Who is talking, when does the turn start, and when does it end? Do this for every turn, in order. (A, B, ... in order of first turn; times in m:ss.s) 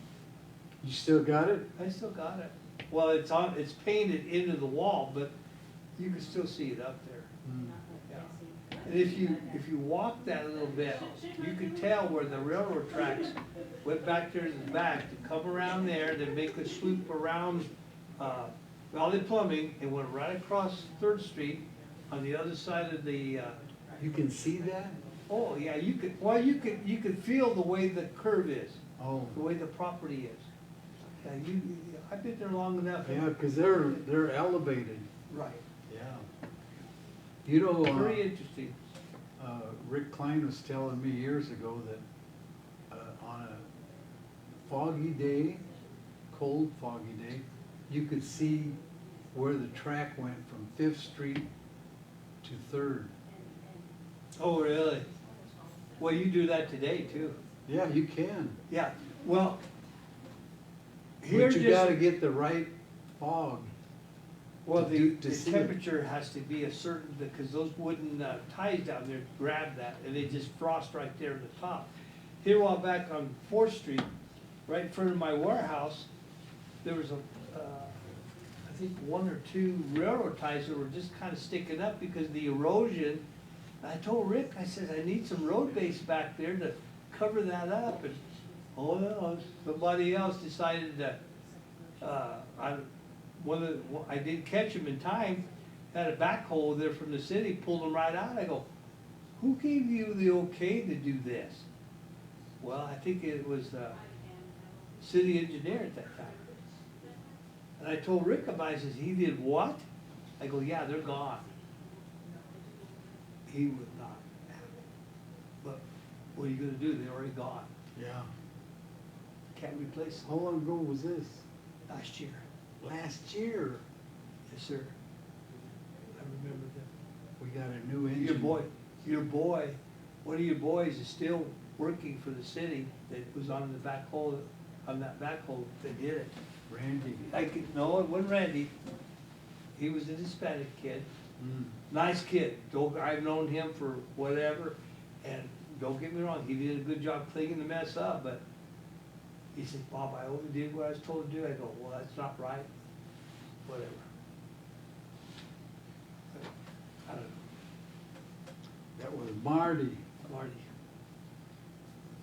0:00.8-0:01.7 A
0:01.8-0:05.3 B
0:06.0-0:07.3 B
0:07.4-0:07.8 A
0:08.1-0:23.6 B
0:24.0-0:25.0 A
0:25.3-0:28.8 B
0:29.0-0:29.4 A
0:29.3-0:30.4 B
0:31.2-0:33.3 B
0:33.0-0:35.1 A
0:35.3-0:35.6 B
0:35.9-0:36.2 A
0:37.4-0:38.3 A
0:37.8-0:38.8 B
0:39.4-0:42.0 A
0:42.9-0:43.6 A
0:44.6-0:45.7 A
0:46.3-0:48.8 A
0:49.3-0:51.5 A
0:52.4-0:53.1 A
0:54.4-0:55.1 B
0:56.0-0:57.4 B
0:57.7-0:58.6 A
0:58.7-0:59.6 B
1:01.2-1:02.0 B
1:01.3-1:03.7 A
1:04.6-1:14.1 B
1:04.8-1:05.7 A
1:14.7-1:16.1 B
1:16.8-1:18.0 B
1:18.6-1:23.2 B
1:23.8-1:28.2 B
1:28.8-1:31.2 B
1:32.0-1:32.9 B
1:33.4-1:38.7 B
1:39.4-1:41.7 B
1:42.6-1:44.0 B
1:45.0-1:46.4 B
1:47.8-1:49.8 B
1:50.4-1:51.5 B
1:53.4-1:54.6 B
1:56.3-1:57.7 B
1:57.9-1:58.3 A
1:59.6-2:00.3 B
2:00.2-2:01.4 A
2:01.9-2:02.4 B
2:02.8-2:03.8 A
2:04.5-2:04.9 B
2:06.1-2:06.9 B
2:07.4-2:08.6 A
2:08.2-2:16.4 B
2:16.7-2:17.3 A
2:17.3-2:18.7 B
2:19.8-2:21.1 B
2:21.4-2:21.8 A
2:21.9-2:28.4 B
2:29.5-2:32.7 B
2:33.6-2:34.1 B
2:37.0-2:37.4 B
2:39.0-2:40.0 A
2:40.2-2:40.7 B